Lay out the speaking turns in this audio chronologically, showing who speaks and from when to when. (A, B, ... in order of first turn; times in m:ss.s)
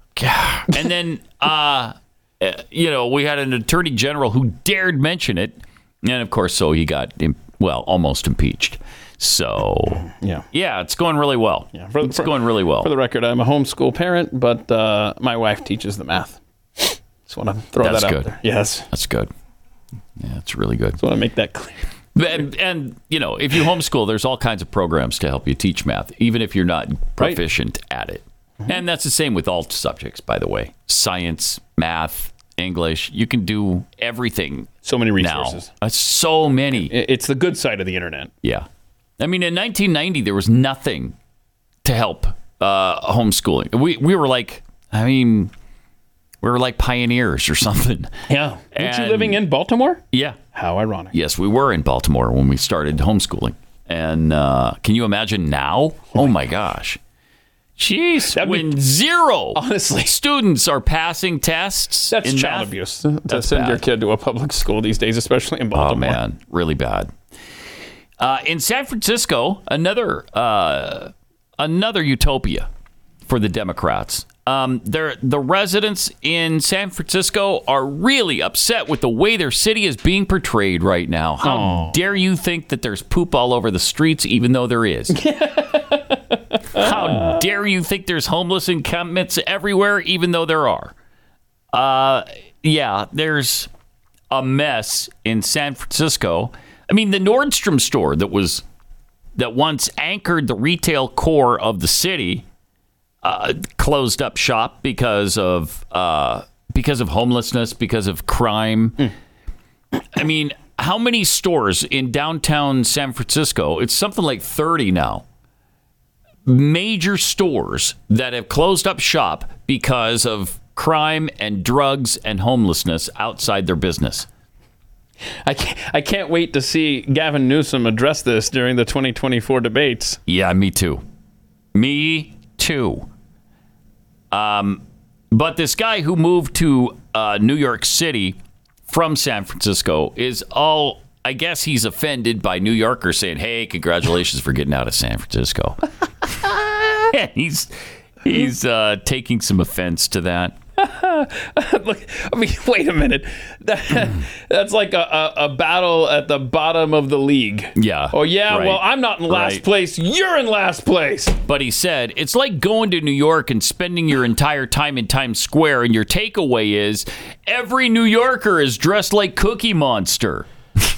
0:00.2-0:12.9 A
0:10.2-0:10.4 B
0:11.7-0:18.8 B
0:17.8-0:18.4 A
0:18.9-0:19.3 A
0:20.2-0:21.0 A
0:21.0-0:21.8 B
0:22.1-0:36.9 A
0:34.8-0:35.7 B
0:36.9-0:38.3 B
0:39.2-0:41.1 A
0:41.8-0:45.5 A
0:46.4-0:48.1 A
0:48.3-0:50.0 B
0:48.7-0:49.4 A
0:50.1-0:50.4 A
0:50.5-0:51.1 B
0:51.1-0:57.0 A
0:57.8-1:02.7 A
0:58.3-0:58.8 B
0:59.5-1:00.1 B
1:02.1-1:06.2 B
1:03.3-1:03.8 A
1:05.7-1:07.1 A
1:08.2-1:12.7 A
1:13.3-1:25.2 A
1:21.4-1:22.0 B
1:25.1-1:27.3 B
1:26.8-1:30.9 A
1:31.7-1:33.7 A
1:34.3-1:38.6 A
1:39.4-1:42.4 A
1:43.2-1:49.1 A
1:50.1-1:55.2 A
1:56.4-2:04.3 A
2:05.4-2:10.2 B
2:10.3-2:11.0 A
2:11.7-2:13.1 A
2:14.3-2:18.4 A
2:18.9-2:25.8 A
2:26.4-2:30.6 A
2:30.8-2:41.3 B
2:37.8-2:39.6 A
2:41.4-2:50.5 A